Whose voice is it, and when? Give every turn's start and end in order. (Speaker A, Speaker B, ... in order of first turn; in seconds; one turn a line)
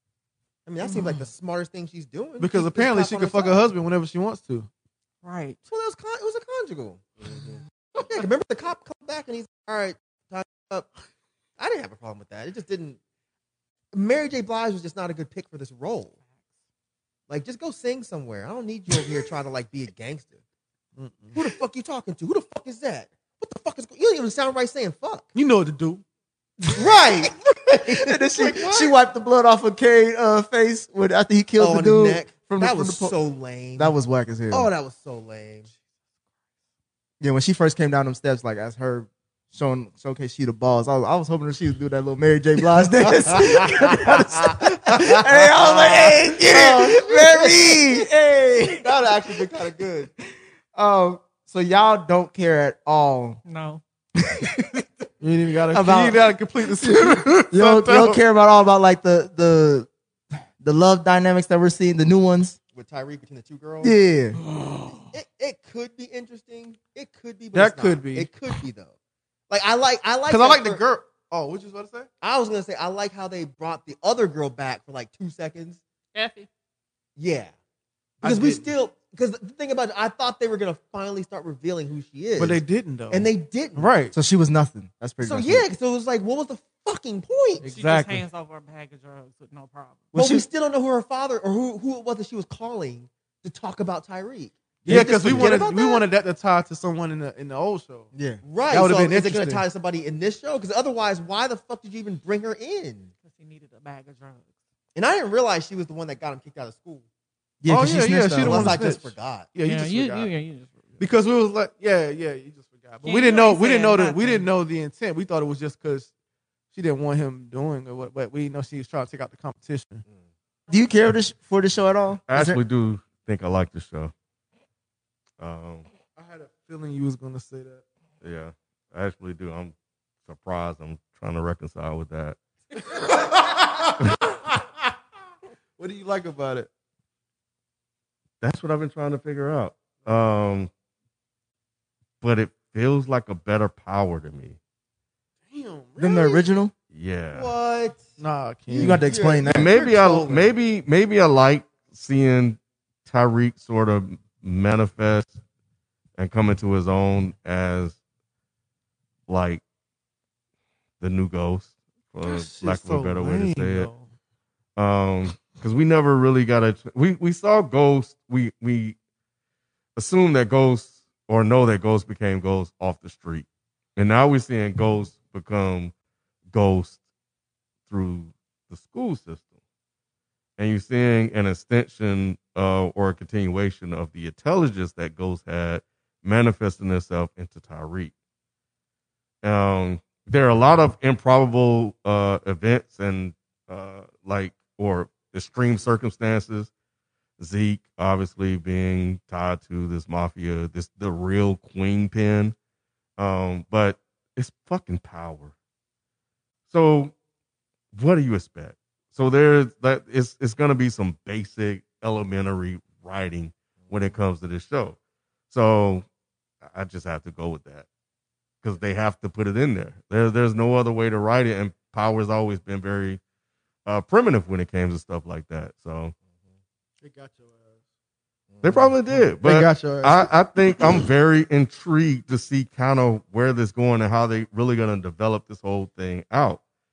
Speaker A: 0.7-3.7
Speaker B: 2.4-4.7
Speaker C: 5.2-5.6
Speaker A: 5.7-10.9
Speaker A: 11.6-13.0
Speaker A: 13.9-16.1
Speaker A: 17.3-20.4
Speaker B: 20.9-21.5
Speaker A: 21.3-25.3
Speaker B: 25.3-26.0
Speaker D: 26.6-33.1
Speaker A: 26.7-28.9
Speaker A: 31.6-33.9
Speaker D: 33.8-34.7
Speaker A: 34.5-35.7
Speaker D: 37.2-48.9
Speaker A: 45.6-48.0
Speaker A: 48.7-50.1
Speaker D: 50.7-53.4
Speaker C: 53.4-53.8
Speaker D: 54.2-54.9
Speaker B: 55.2-58.2
Speaker D: 55.7-59.9
Speaker D: 60.6-62.6
Speaker A: 62.7-64.0
Speaker D: 63.8-64.4
Speaker B: 64.4-65.1
Speaker A: 65.1-68.9
Speaker B: 67.5-68.3
Speaker A: 69.5-70.8
Speaker B: 70.3-72.1
Speaker A: 72.2-75.8
Speaker C: 76.1-76.5
Speaker A: 77.2-77.5
Speaker B: 78.2-78.7
Speaker A: 78.2-84.0
Speaker B: 82.3-84.1
Speaker D: 84.1-85.7
Speaker A: 85.2-87.7
Speaker B: 87.6-88.2
Speaker C: 87.7-90.0
Speaker D: 90.1-90.5
Speaker A: 90.1-96.1
Speaker B: 94.8-98.1
Speaker D: 94.9-95.5
Speaker D: 98.1-98.4
Speaker A: 98.4-103.1
Speaker B: 98.7-99.6
Speaker C: 103.2-104.5
Speaker A: 104.9-107.0
Speaker D: 107.6-108.8
Speaker B: 107.7-110.3
Speaker A: 108.4-109.5
Speaker C: 109.6-111.0
Speaker B: 111.0-116.1
Speaker C: 113.0-114.5
Speaker B: 116.7-120.0
Speaker D: 120.7-122.6
Speaker E: 122.3-124.1
Speaker E: 125.4-125.9
Speaker B: 126.2-127.8
Speaker E: 128.2-129.7
Speaker E: 130.2-132.4
Speaker B: 132.7-134.5
Speaker B: 135.8-136.7
Speaker E: 138.4-140.7
Speaker E: 142.2-144.6
Speaker B: 145.5-146.4
Speaker D: 146.0-146.7
Speaker E: 146.9-147.5
Speaker A: 147.3-148.1
Speaker B: 148.2-149.2
Speaker A: 148.7-150.4
Speaker D: 148.7-149.8
Speaker E: 149.4-155.3
Speaker B: 149.9-150.2
Speaker E: 156.2-157.9
Speaker E: 159.3-159.6
Speaker E: 161.0-163.9
Speaker B: 162.2-164.1
Speaker E: 164.8-168.9
Speaker E: 169.9-175.9
Speaker E: 176.5-177.0
Speaker E: 177.9-179.5
Speaker E: 180.6-188.1
Speaker E: 189.4-196.7
Speaker E: 197.4-202.5
Speaker E: 203.2-205.5
Speaker E: 206.7-207.1
Speaker E: 207.9-215.0
Speaker A: 213.8-214.2
Speaker E: 215.5-216.0
Speaker E: 216.6-217.9
Speaker E: 218.6-223.2
Speaker E: 223.8-226.1
Speaker B: 227.0-227.8
Speaker A: 228.5-228.9
Speaker E: 228.6-236.6
Speaker B: 229.1-230.9